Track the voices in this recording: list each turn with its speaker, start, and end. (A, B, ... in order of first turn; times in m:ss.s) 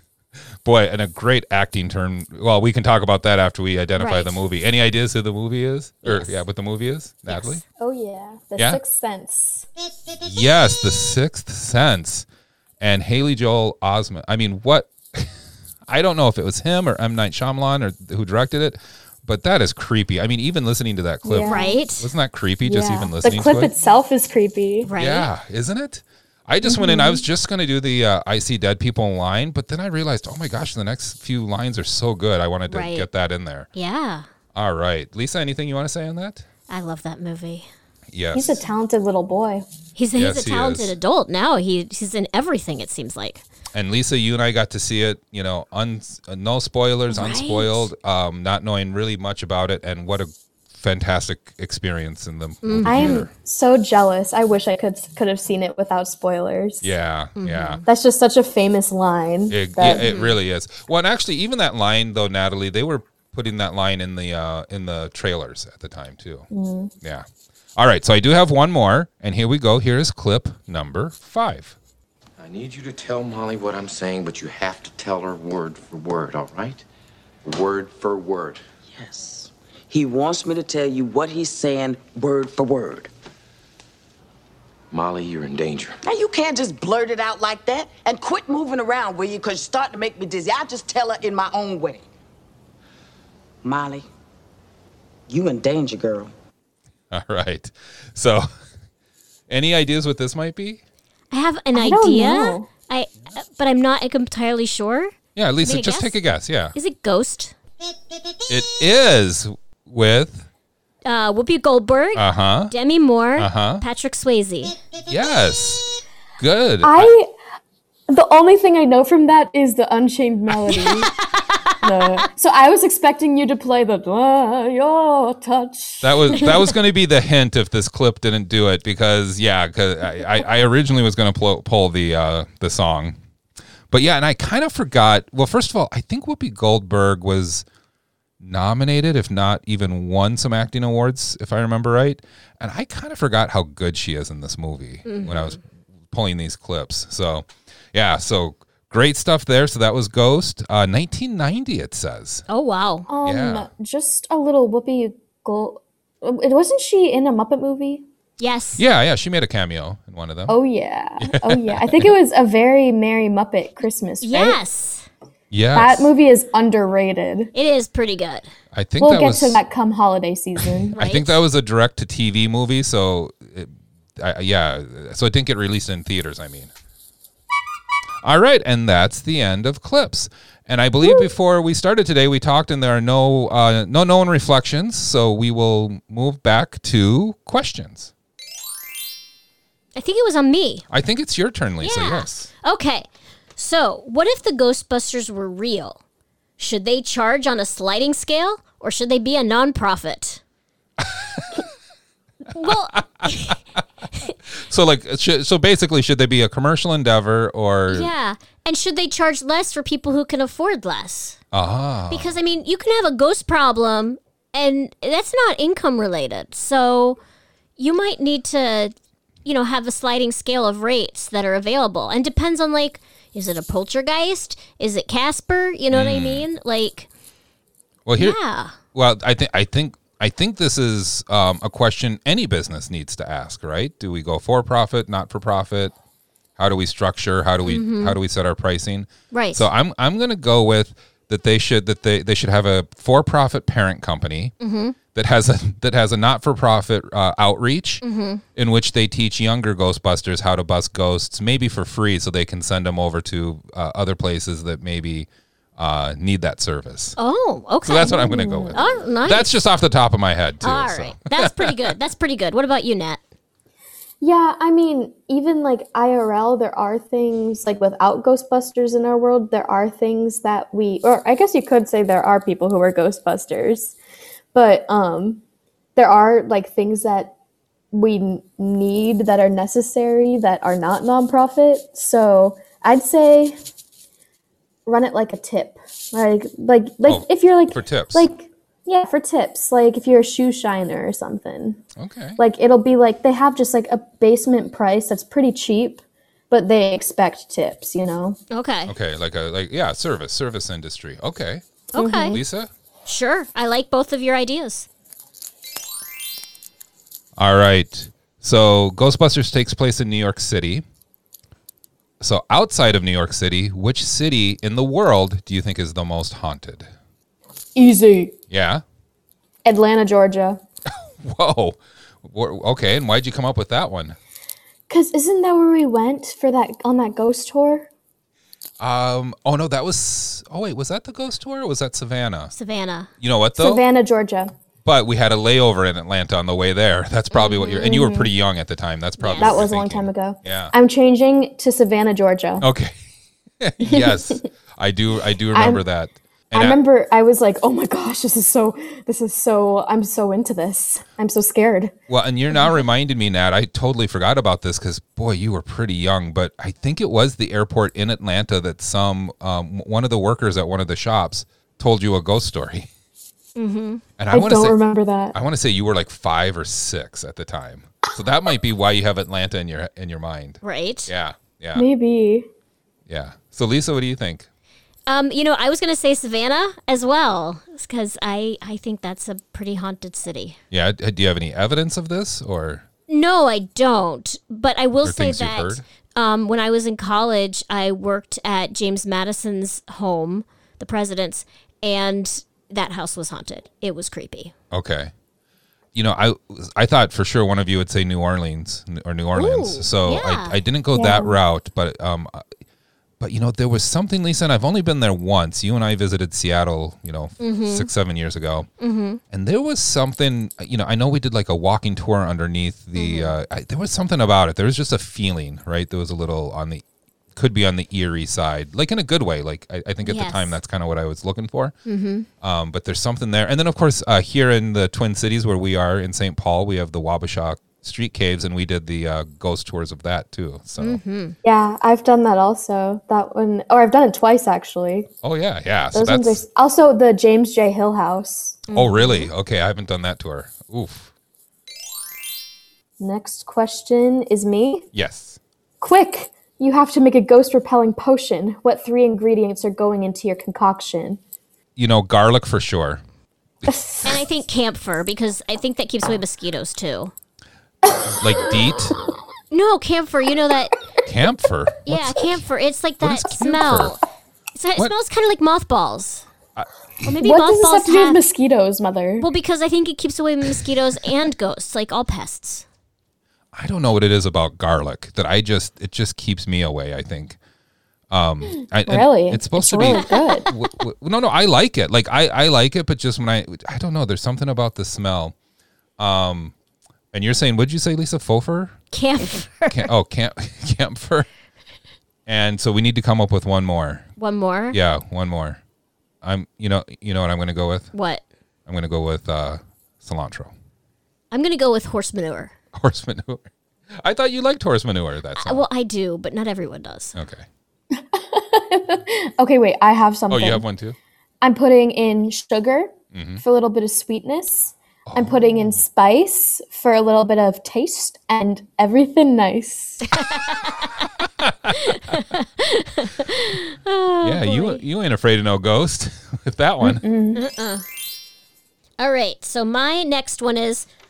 0:00.6-0:07.6 A
0:04.0-0:04.4 B
0:06.0-0:06.4 B
0:07.3-0:07.6 B
0:07.8-0:09.7 C
0:10.2-0:12.3 A
0:12.8-0:15.3 A
0:15.9-0:23.7 A
0:21.2-0:21.8 C
0:21.4-0:22.1 B
0:22.6-0:24.9 C
0:24.8-0:25.3 B
0:25.0-0:33.7 A
0:26.6-0:27.2 C
0:32.7-0:33.1 B
0:33.7-0:34.3 B
0:34.5-0:36.4 A
0:36.7-0:37.7 B
0:38.1-0:38.6 A
0:38.3-0:39.7 C
0:40.0-0:43.4 B
0:40.2-0:40.9 A
0:43.7-0:53.3 A
0:47.1-0:47.9 B
0:52.6-0:53.2 B
0:52.8-0:56.9 C
0:56.8-0:57.8 A
0:57.4-0:57.8 B
0:57.9-1:00.1 C
0:59.5-1:06.5 A
1:00.0-1:00.4 B
1:06.5-1:06.9 C
1:07.0-1:11.8 A
1:12.4-1:16.8 D
1:17.4-1:18.6 D
1:19.0-1:23.1 E
1:24.9-1:26.0 D
1:26.0-1:32.1 E
1:33.6-1:34.0 E
1:35.3-1:36.3 E
1:37.1-1:38.5 A
1:39.5-1:40.8 A
1:41.3-1:46.2 B
1:41.7-1:42.7 C
1:45.4-1:46.8 A
1:46.7-1:47.6 B
1:48.5-1:50.5 A
1:51.0-1:54.8 B
1:52.2-1:52.7 A
1:53.4-1:53.8 A
1:55.1-1:55.9 A
1:56.4-1:57.2 A
1:56.8-1:57.3 C
1:58.1-2:01.1 C
2:01.8-2:06.6 C
2:06.0-2:13.2 A
2:13.9-2:17.6 A
2:18.4-2:32.4 A
2:25.0-2:25.6 B
2:32.5-2:33.1 B
2:33.1-2:38.0 C
2:33.2-2:33.7 A
2:38.4-2:38.8 B
2:38.8-2:40.6 A
2:40.5-2:44.6 C
2:41.4-2:42.1 A
2:44.2-2:45.1 B
2:45.5-2:46.1 A
2:45.8-2:47.5 C
2:47.5-2:48.5 B
2:48.7-2:49.6 A
2:49.0-2:51.0 C
2:50.6-2:56.7 A
2:51.0-2:51.4 B
2:58.2-3:08.1 A
3:10.0-3:10.9 B
3:10.9-3:12.5 A
3:11.8-3:16.0 B
3:16.6-3:20.4 B
3:21.0-3:21.6 A
3:22.5-3:23.6 B
3:22.6-3:23.6 A
3:24.5-3:28.1 A
3:27.9-3:31.4 B
3:31.5-3:32.3 A
3:32.1-3:37.2 B
3:37.8-3:38.9 B
3:39.4-3:47.1 B
3:45.9-3:46.5 A
3:48.1-3:48.4 A
3:48.2-3:48.8 B
3:48.9-3:55.9 A
3:56.6-4:04.5 A
3:57.6-3:58.2 B
3:59.3-3:59.7 B
4:04.6-4:05.0 B
4:05.1-4:08.0 A
4:08.0-4:08.4 B
4:08.6-4:17.2 A
4:17.2-4:19.5 B
4:17.8-4:22.0 A
4:18.0-4:18.9 C
4:20.6-4:23.2 B
4:24.2-4:34.0 C
4:34.5-4:35.4 C
4:36.0-4:37.4 C
4:37.9-4:43.6 C
4:44.9-4:51.8 C
4:47.1-4:48.3 A
4:52.0-4:52.4 A
4:52.4-4:58.4 C
4:58.5-4:58.9 B
4:58.9-5:01.6 A
5:01.9-5:02.4 B
5:02.0-5:02.4 C
5:02.3-5:02.7 A
5:03.0-5:04.9 B
5:07.4-5:10.8 A
5:12.2-5:16.9 A
5:17.8-5:18.3 C
5:18.5-5:18.8 A
5:19.6-5:20.6 C
5:20.9-5:24.2 A
5:24.9-5:27.9 C
5:28.8-5:32.5 A
5:32.5-5:33.1 B
5:33.2-5:33.8 A
5:33.6-5:34.5 C
5:34.8-5:40.7 A
5:37.3-5:37.8 B
5:37.7-5:38.3 C
5:39.2-5:39.6 B
5:39.4-5:42.7 C
5:42.6-5:43.0 A
5:43.6-5:46.8 A
5:43.8-5:44.5 C
5:45.5-5:45.8 C
5:46.5-5:51.9 C
5:52.1-6:02.9 A
6:03.6-6:04.0 B
6:04.2-6:04.8 A
6:04.3-6:05.4 C
6:05.3-6:11.8 A
6:10.6-6:11.1 B
6:11.8-6:12.5 C
6:13.1-6:14.5 A
6:15.1-6:20.6 B
6:20.7-6:22.9 A
6:23.1-6:34.5 B
6:25.0-6:25.8 A
6:34.7-6:35.1 A
6:36.0-6:42.4 A
6:39.4-6:40.6 B
6:41.0-6:41.4 C
6:43.2-6:48.7 A
6:47.4-6:47.9 B
6:48.8-6:49.2 B
6:49.3-6:56.8 A
6:53.0-6:53.4 B
6:57.4-7:01.7 A
7:00.0-7:00.6 B
7:01.9-7:02.3 B
7:02.4-7:11.0 A
7:10.8-7:11.4 B
7:11.4-7:15.1 C
7:15.2-7:16.4 A
7:15.9-7:19.1 C
7:18.7-7:19.2 B
7:18.7-7:21.1 A
7:23.0-7:24.9 C
7:24.9-7:25.4 A
7:25.8-7:31.2 C
7:31.8-7:33.0 A
7:33.6-7:34.2 C
7:34.0-7:37.1 B
7:37.9-7:39.1 C
7:38.1-7:39.0 A
7:39.5-7:40.7 B
7:41.0-7:42.3 A
7:41.9-7:44.0 B
7:43.0-7:44.0 A
7:44.6-7:46.2 B
7:46.6-7:47.0 A
7:47.0-7:48.2 B
7:47.2-7:49.3 C
7:49.2-7:52.6 B
7:53.5-7:57.4 A
7:58.1-8:05.4 A
7:58.9-8:00.5 C
7:59.8-8:00.2 B
8:06.0-8:06.5 A
8:07.1-8:08.8 A
8:08.9-8:09.9 B
8:09.7-8:11.3 A
8:12.3-8:14.1 A
8:14.2-8:14.8 B
8:14.7-8:15.6 A
8:16.2-8:17.9 A
8:17.9-8:18.2 B
8:18.7-8:20.5 A
8:21.3-8:22.5 B
8:22.8-8:25.6 A
8:25.4-8:27.2 B
8:27.2-8:27.5 A
8:27.9-8:30.6 C
8:30.3-8:31.0 A
8:31.4-8:40.1 C
8:33.1-8:33.4 A
8:35.1-8:35.4 A
8:40.1-8:40.9 B
8:41.4-8:41.8 A
8:41.7-8:44.8 B
8:44.2-8:47.0 A
8:46.8-8:47.4 C
8:47.4-8:47.8 B
8:49.0-8:50.9 B